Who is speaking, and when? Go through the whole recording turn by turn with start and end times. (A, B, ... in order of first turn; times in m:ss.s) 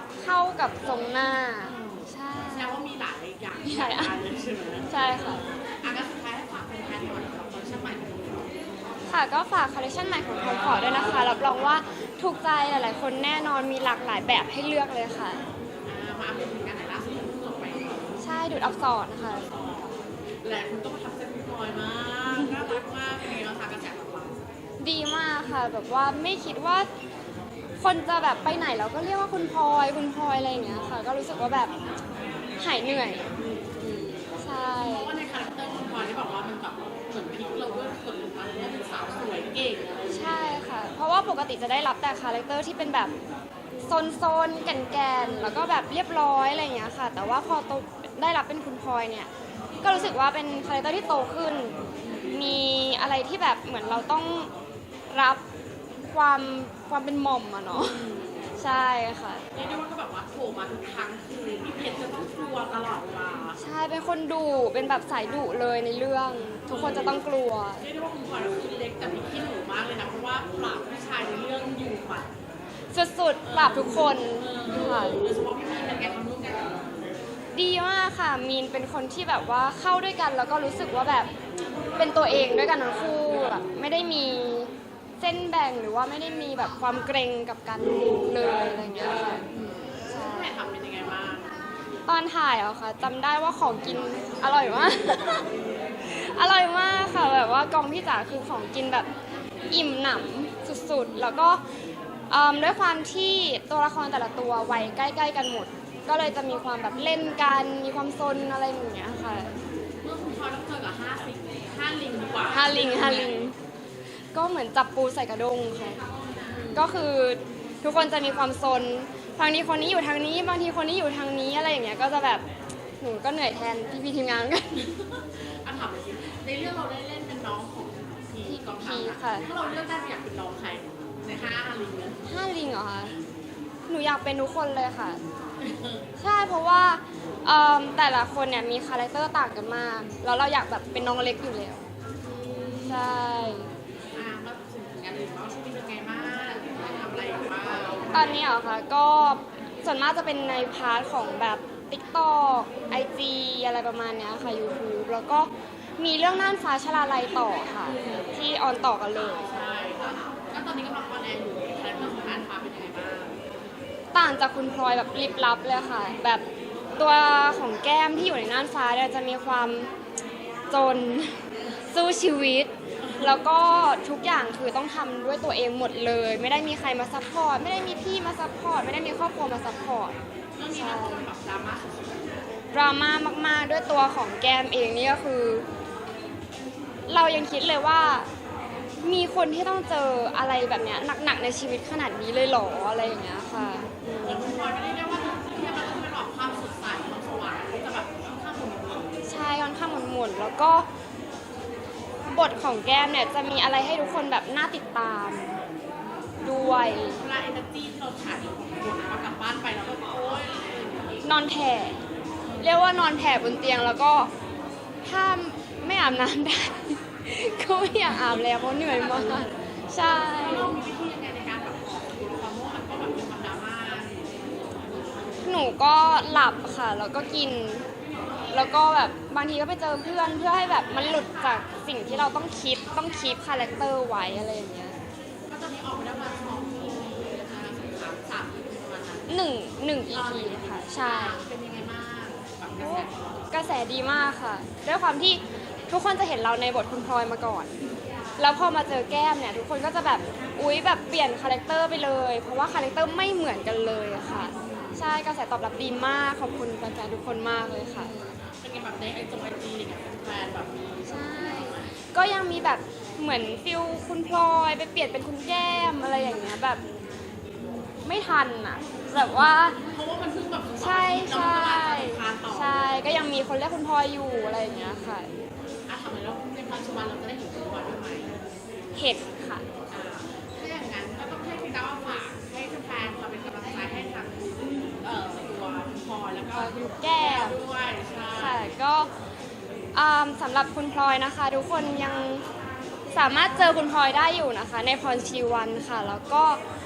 0:00.2-0:02.8 A
0:01.6-0:08.6 B
0:03.6-0:04.1 A
0:04.9-0:05.4 A
0:09.1-0:15.4 A
0:15.8-0:18.2 B
0:18.2-0:19.5 A
0:19.2-0:24.4 B
0:24.8-0:26.9 A
0:27.8-0:31.7 A
0:32.6-0:33.3 A
0:33.3-0:40.4 B
0:34.4-0:35.1 A
0:40.1-0:43.1 A
0:43.9-0:49.3 A
0:45.3-0:45.6 B
0:49.8-0:54.5 A
0:52.0-0:52.4 B
0:55.1-0:55.4 A
0:56.0-0:58.0 A
0:57.8-0:58.6 B
0:58.6-0:59.4 A
0:59.5-1:03.6 B
1:03.6-1:07.9 A
1:06.7-1:07.2 B
1:07.8-1:12.3 B
1:12.9-1:15.2 A
1:13.4-1:16.9 B
1:17.5-1:21.3 A
1:22.0-1:29.5 A
1:29.5-1:31.6 B
1:30.1-1:30.5 A
1:32.1-1:39.1 A
1:39.7-1:41.6 A
1:42.3-1:49.6 A
1:50.0-1:53.5 B
1:52.5-1:53.6 A
1:54.3-1:56.0 A
1:56.4-1:56.9 B
1:56.7-2:02.4 A
2:03.0-2:04.9 A
2:04.8-2:12.2 B
2:08.5-2:09.5 A
2:12.2-2:13.1 A
2:13.9-2:15.2 A
2:15.6-2:16.1 B
2:16.2-2:21.9 A
2:22.3-2:23.1 B
2:22.8-2:23.7 A
2:24.1-2:28.4 B
2:28.1-2:39.5 A
2:37.9-2:38.3 B
2:39.2-2:43.4 B
2:44.1-2:46.4 A
2:47.0-2:49.9 A
2:50.7-3:01.2 A
2:53.0-2:53.4 B
3:00.6-3:02.1 B
3:02.7-3:05.6 A
3:07.1-3:08.3 A
3:09.0-3:14.5 A
3:14.2-3:19.2 B
3:19.2-3:20.9 A
3:22.2-3:25.6 A
3:26.4-3:27.2 A
3:27.0-3:31.2 B
3:31.2-3:32.0 A
3:32.6-3:34.3 A
3:35.0-3:40.8 A
3:38.7-3:39.5 B
3:40.1-3:44.4 B
3:45.4-3:47.9 A
3:48.5-3:55.0 A
3:55.5-3:59.4 B
3:59.3-4:01.4 A
4:00.1-4:03.7 B
4:02.8-4:07.7 A
4:08.4-4:18.1 A
4:14.6-4:15.0 B
4:18.1-4:21.9 B
4:21.1-4:26.8 A
4:28.0-4:29.8 A
4:29.1-4:32.8 B
4:30.8-4:35.3 A
4:35.9-4:38.4 B
4:39.0-4:39.7 A
4:39.9-4:48.7 B
4:46.5-4:47.6 A
4:48.4-4:49.1 A
4:49.9-4:52.4 A
4:53.1-4:56.6 A